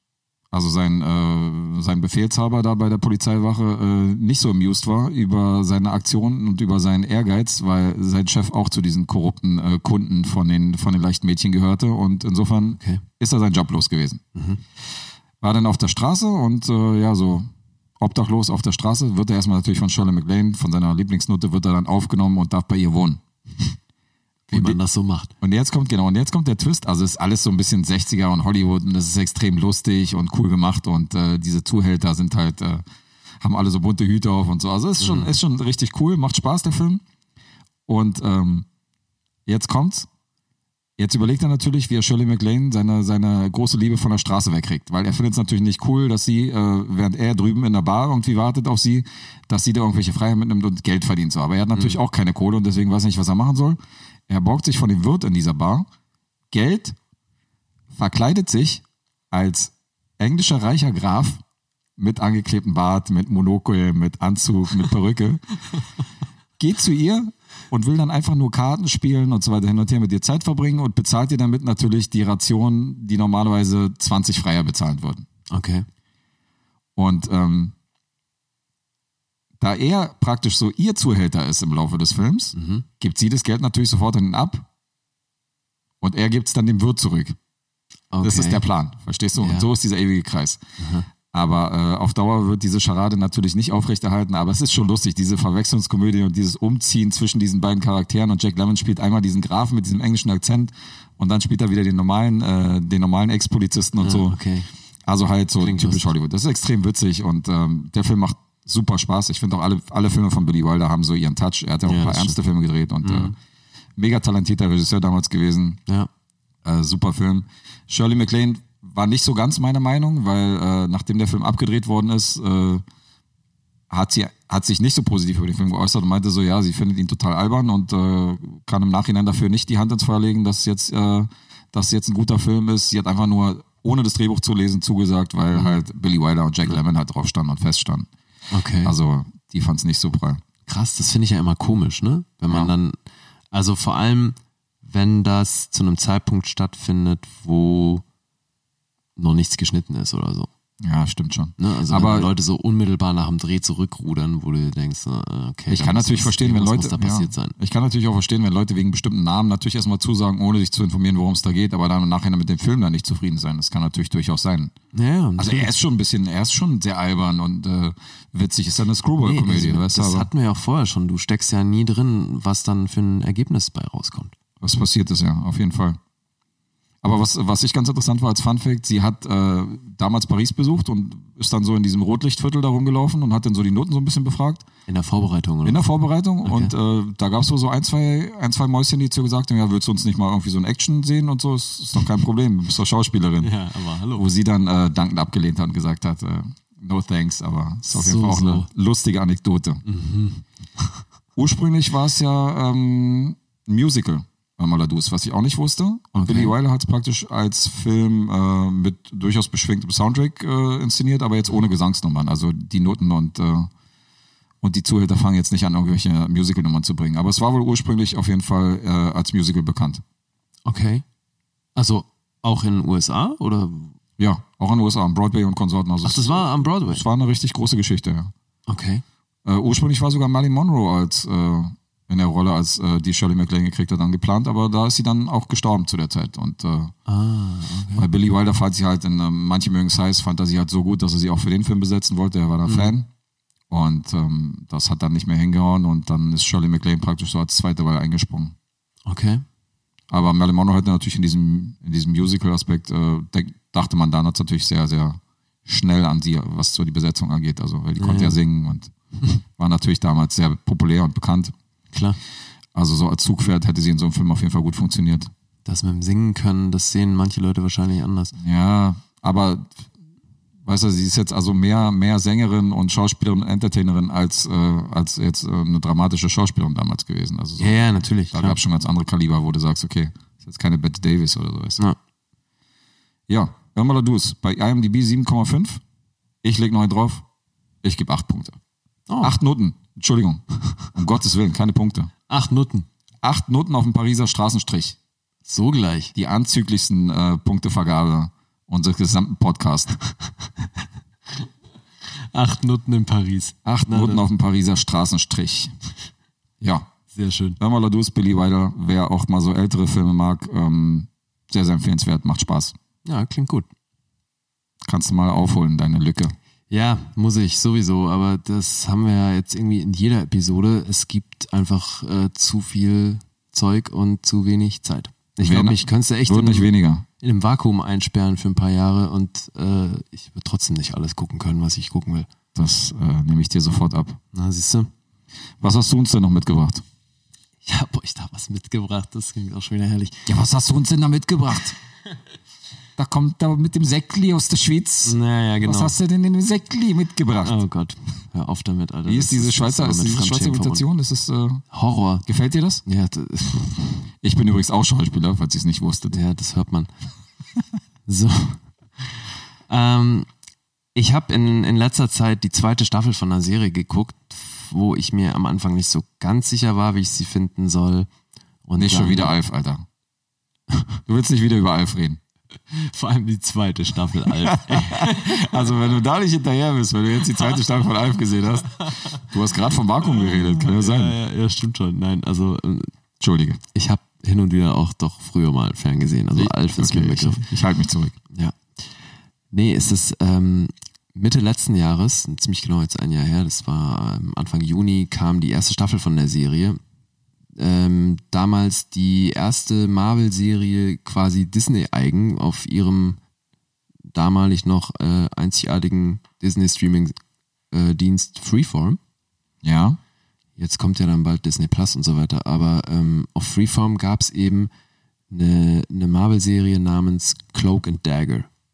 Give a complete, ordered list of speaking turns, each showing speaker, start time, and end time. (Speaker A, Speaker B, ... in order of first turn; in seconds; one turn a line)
Speaker A: 0.5-14.2
Speaker B: 12.8-13.0
Speaker B: 14.3-14.6
Speaker A: 15.4-17.5
Speaker A: 18.0-23.2
Speaker B: 24.5-25.3
Speaker A: 24.5-24.8
Speaker A: 25.4-32.8
Speaker A: 33.4-37.0
Speaker B: 35.0-35.3
Speaker A: 37.9-38.7
Speaker A: 39.5-40.1
Speaker A: 41.0-55.9
Speaker A: 56.5-57.0
Speaker A: 57.9-61.4
Speaker A: 62.0-65.4
Speaker A: 66.6-75.3
Speaker B: 75.5-75.8
Speaker A: 77.0-77.7
Speaker A: 79.6-84.7
Speaker B: 82.5-82.8
Speaker A: 86.0-87.4
Speaker B: 88.1-88.6
Speaker A: 88.2-90.6
Speaker B: 89.4-89.7
Speaker B: 90.8-91.1
Speaker A: 91.3-104.4
Speaker B: 104.0-104.7
Speaker A: 105.1-113.3
Speaker B: 105.6-106.1
Speaker B: 111.8-112.4
Speaker B: 113.0-113.3
Speaker A: 114.0-115.8
Speaker A: 116.6-122.8
Speaker A: 123.9-138.1
Speaker B: 135.5-135.8
Speaker B: 138.5-138.9
Speaker A: 138.8-140.4
Speaker B: 140.7-143.0
Speaker B: 143.5-148.0
Speaker B: 149.2-150.5
Speaker A: 150.8-152.3
Speaker B: 151.6-157.6
Speaker A: 155.7-164.7
Speaker B: 164.9-165.7
Speaker A: 165.4-170.3
Speaker B: 169.2-174.3
Speaker A: 174.6-176.0
Speaker A: 177.0-184.6
Speaker B: 184.9-185.8
Speaker A: 185.6-193.5
Speaker B: 186.4-186.7
Speaker B: 193.4-194.3
Speaker A: 194.2-199.8
Speaker B: 197.9-198.7
Speaker B: 199.8-201.0
Speaker A: 201.4-213.7
Speaker B: 206.2-206.6
Speaker A: 214.6-220.0
Speaker B: 220.7-221.0
Speaker B: 221.8-224.0
Speaker A: 224.2-228.3
Speaker B: 226.0-227.0
Speaker B: 228.7-229.0
Speaker A: 229.5-236.9
Speaker B: 237.1-238.1
Speaker A: 238.0-243.1
Speaker B: 242.7-242.9
Speaker A: 243.7-248.6
Speaker B: 249.1-249.4
Speaker A: 250.1-258.9
Speaker B: 258.0-258.4
Speaker A: 259.6-261.5
Speaker B: 261.9-262.2
Speaker A: 262.8-265.3
Speaker B: 265.7-268.3
Speaker A: 268.4-269.8
Speaker A: 270.6-277.8
Speaker B: 277.6-278.6
Speaker A: 278.3-281.8
Speaker A: 283.3-285.8
Speaker A: 286.4-287.2
Speaker A: 287.8-288.6
Speaker B: 289.1-289.4
Speaker A: 289.2-292.1
Speaker B: 292.3-292.9
Speaker A: 293.2-295.0
Speaker B: 295.5-296.1
Speaker A: 296.1-300.0
Speaker B: 302.3-304.2
Speaker A: 303.6-305.7
Speaker A: 306.6-306.9
Speaker B: 307.1-307.6
Speaker A: 307.6-312.8
Speaker B: 313.1-313.7
Speaker A: 314.9-316.4
Speaker B: 316.7-332.3
Speaker A: 325.4-327.1
Speaker A: 332.6-334.2
Speaker B: 334.3-334.9
Speaker A: 335.6-336.8
Speaker B: 337.6-340.3
Speaker A: 340.3-341.8
Speaker A: 343.0-347.6
Speaker B: 345.0-345.9
Speaker B: 347.4-350.8
Speaker A: 349.1-351.6
Speaker B: 351.7-352.3
Speaker A: 352.3-352.8
Speaker B: 352.9-354.0
Speaker A: 354.2-356.2
Speaker B: 356.1-356.9
Speaker B: 358.1-359.2
Speaker B: 359.7-360.3
Speaker B: 360.9-368.1
Speaker B: 368.7-369.3
Speaker A: 368.8-369.9
Speaker A: 371.1-372.2
Speaker B: 372.7-375.6
Speaker A: 374.4-381.2
Speaker B: 380.2-382.9
Speaker A: 383.2-383.6
Speaker B: 383.7-387.4
Speaker A: 386.3-388.2
Speaker B: 388.3-388.9
Speaker B: 389.5-396.8
Speaker B: 397.6-403.2
Speaker B: 404.1-407.1
Speaker B: 407.7-409.0
Speaker A: 409.6-410.0
Speaker B: 410.6-414.7
Speaker B: 415.3-418.5